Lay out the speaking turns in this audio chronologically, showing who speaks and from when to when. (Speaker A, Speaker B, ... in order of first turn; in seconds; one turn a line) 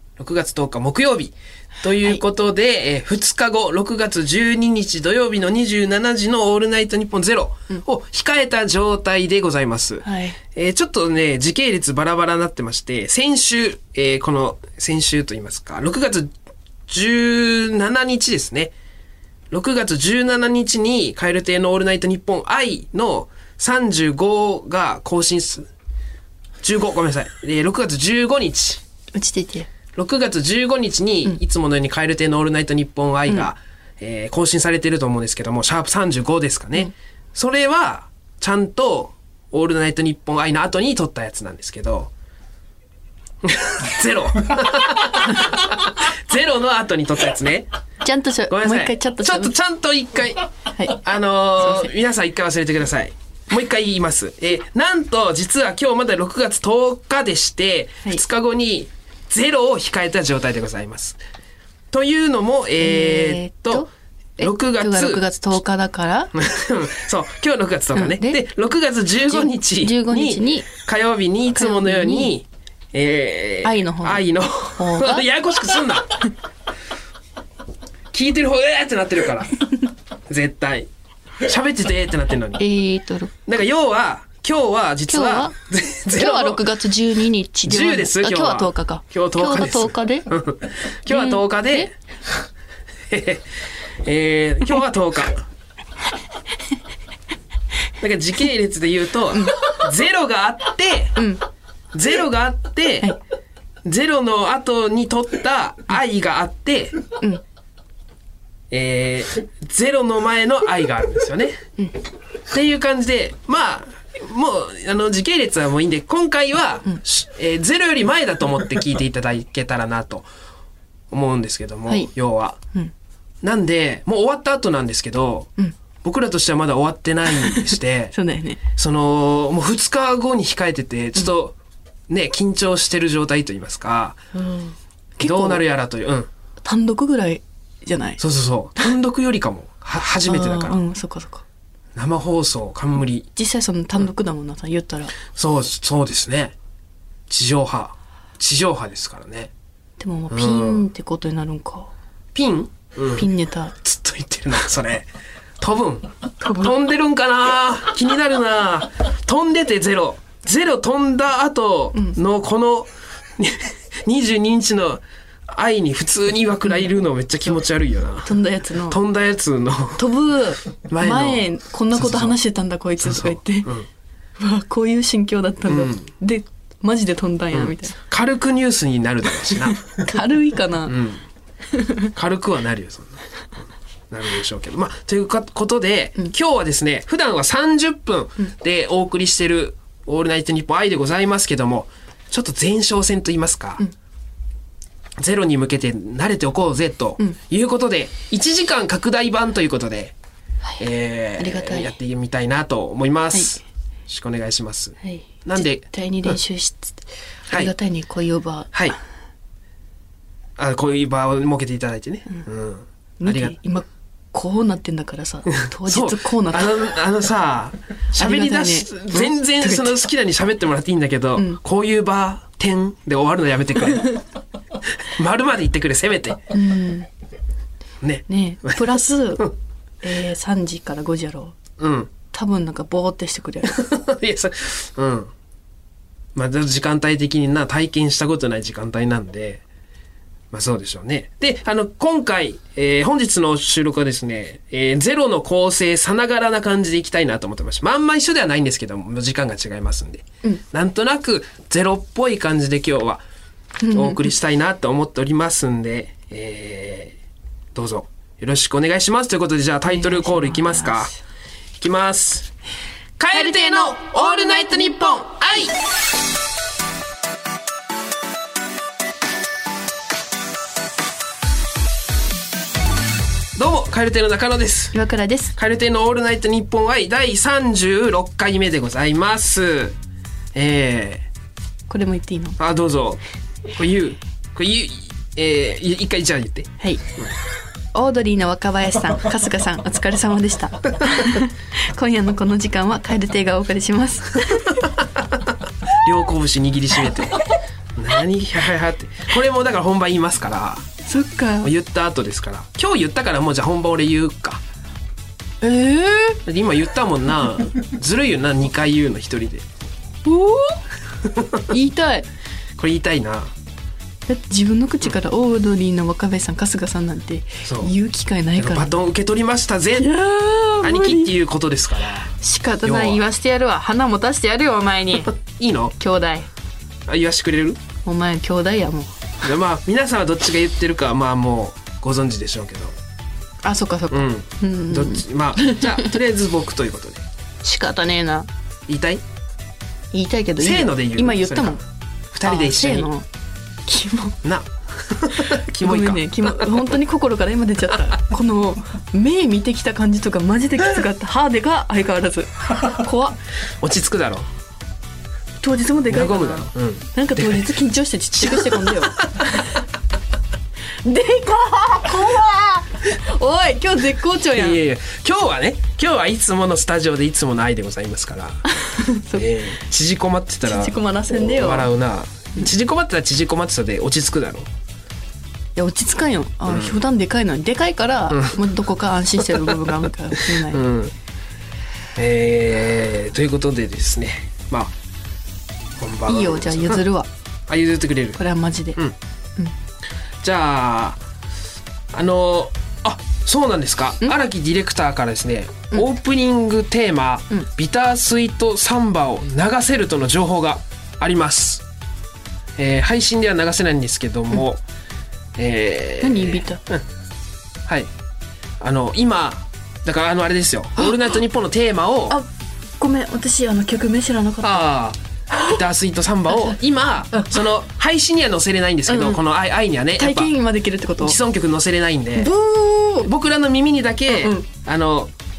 Speaker A: 0.2-16.3
Speaker B: 10.0-10.4
Speaker A: 16.9-18.7
Speaker A: 19.5-25.7
Speaker A: 26.6-28.8
Speaker B: 29.1-29.7
Speaker A: 29.9-42.1
Speaker A: 43.4-47.7
Speaker B: 48.0-49.5
Speaker A: 48.5-61.2
Speaker B: 50.7-51.0
Speaker B: 51.6-51.9
Speaker A: 61.9-63.9
Speaker B: 62.8-66.3
Speaker A: 64.4-65.2
Speaker A: 66.3-76.2
Speaker B: 67.9-68.4
Speaker B: 69.3-70.7
Speaker B: 71.5-72.3
Speaker B: 73.6-75.3
Speaker A: 78.1-80.9
Speaker A: 81.4-82.6
Speaker B: 82.6-83.3
Speaker A: 83.5-86.7
Speaker B: 85.1-85.5
Speaker B: 86.1-90.3
Speaker A: 87.6-91.9
Speaker B: 91.1-91.9
Speaker A: 93.1-93.5
Speaker A: 94.0-95.4
Speaker A: 98.0-101.2
Speaker B: 99.3-99.6
Speaker B: 101.2-101.4
Speaker A: 101.9-103.1
Speaker A: 103.8-107.0
Speaker A: 108.7-111.6
Speaker A: 112.5-120.3
Speaker A: 121.1-122.6
Speaker A: 123.4-125.5
Speaker A: 126.0-128.1
Speaker B: 127.4-128.6
Speaker A: 128.7-131.6
Speaker A: 132.1-134.2
Speaker B: 134.3-135.6
Speaker A: 135.2-136.3
Speaker B: 136.6-138.2
Speaker A: 138.2-140.8
Speaker B: 140.2-141.4
Speaker A: 141.9-143.3
Speaker B: 143.3-145.2
Speaker A: 145.3-146.5
Speaker A: 147.3-149.5
Speaker B: 150.0-151.9
Speaker A: 150.3-150.8
Speaker A: 152.3-153.3
Speaker B: 153.1-153.7
Speaker A: 153.8-155.1
Speaker A: 155.6-170.0
Speaker B: 156.4-156.7
Speaker B: 168.2-169.0
Speaker B: 170.0-173.7
Speaker A: 170.9-172.4
Speaker A: 173.0-173.9
Speaker B: 174.4-177.9
Speaker A: 175.7-176.1
Speaker A: 177.5-179.8
Speaker B: 179.7-181.0
Speaker A: 180.9-181.2
Speaker B: 181.7-182.1
Speaker A: 182.1-183.2
Speaker A: 184.1-193.8
Speaker A: 195.2-200.1
Speaker A: 200.8-205.8
Speaker B: 201.4-202.0
Speaker B: 203.3-203.6
Speaker B: 205.0-208.9
Speaker A: 210.6-213.6
Speaker B: 213.2-216.9
Speaker A: 215.5-224.2
Speaker B: 218.1-220.0
Speaker A: 225.0-226.5
Speaker B: 226.5-227.1
Speaker A: 228.0-228.8
Speaker B: 228.3-229.5
Speaker B: 230.0-231.6
Speaker A: 231.8-232.1
Speaker B: 232.3-233.7
Speaker A: 233.7-235.3
Speaker A: 236.3-239.6
Speaker A: 240.5-253.2
Speaker B: 253.8-254.3
Speaker A: 253.9-257.1
Speaker A: 257.7-261.1
Speaker B: 259.9-261.1
Speaker A: 261.8-262.5
Speaker A: 263.2-265.8
Speaker B: 263.3-264.9
Speaker A: 273.5-275.0
Speaker B: 274.9-275.5
Speaker A: 275.6-279.9
Speaker A: 280.5-281.2
Speaker B: 281.9-282.6
Speaker A: 282.6-287.3
Speaker B: 287.9-294.8
Speaker A: 295.9-297.4
Speaker A: 297.9-300.9
Speaker B: 301.0-301.7
Speaker A: 301.6-304.6
Speaker B: 305.6-306.4
Speaker A: 306.4-309.6
Speaker B: 310.2-310.8
Speaker A: 311.2-311.6
Speaker B: 311.7-312.3
Speaker A: 312.8-313.5
Speaker B: 314.3-318.9
Speaker A: 317.6-317.9
Speaker A: 318.6-320.1
Speaker B: 319.9-321.3
Speaker A: 320.8-322.3
Speaker B: 322.4-325.3
Speaker A: 322.8-323.2
Speaker A: 325.3-325.9
Speaker B: 326.0-326.5
Speaker A: 327.1-327.8
Speaker B: 328.0-329.1
Speaker A: 329.4-332.9
Speaker B: 333.6-336.2
Speaker A: 334.1-337.2
Speaker B: 337.6-338.5
Speaker A: 338.9-339.2
Speaker B: 340.1-341.8
Speaker A: 340.6-341.8
Speaker A: 342.3-343.1
Speaker B: 342.4-343.3
Speaker B: 343.8-344.4
Speaker A: 344.4-346.8
Speaker B: 345.5-353.4
Speaker A: 353.8-354.5
Speaker B: 355.6-359.7
Speaker A: 356.1-357.7
Speaker A: 358.4-359.3
Speaker B: 361.0-364.8
Speaker A: 364.5-368.6
Speaker B: 368.7-369.6
Speaker A: 369.3-374.7
Speaker B: 370.6-371.9
Speaker B: 375.8-380.8
Speaker A: 376.7-376.9
Speaker A: 378.3-378.6
Speaker A: 380.5-381.1
Speaker A: 382.1-384.9
Speaker A: 386.0-387.0
Speaker B: 386.2-387.3
Speaker A: 387.7-388.4
Speaker B: 388.4-389.0
Speaker A: 390.4-391.2
Speaker A: 392.1-401.8
Speaker A: 402.8-404.8
Speaker A: 405.6-407.0
Speaker B: 406.2-406.8
Speaker A: 408.8-412.4
Speaker B: 413.0-414.9
Speaker A: 414.6-420.5
Speaker B: 415.5-415.8
Speaker B: 416.5-416.8
Speaker B: 417.3-417.6
Speaker B: 419.1-419.4
Speaker B: 420.2-421.4
Speaker A: 421.2-422.5
Speaker B: 422.3-423.3
Speaker A: 423.2-425.3
Speaker B: 424.3-424.7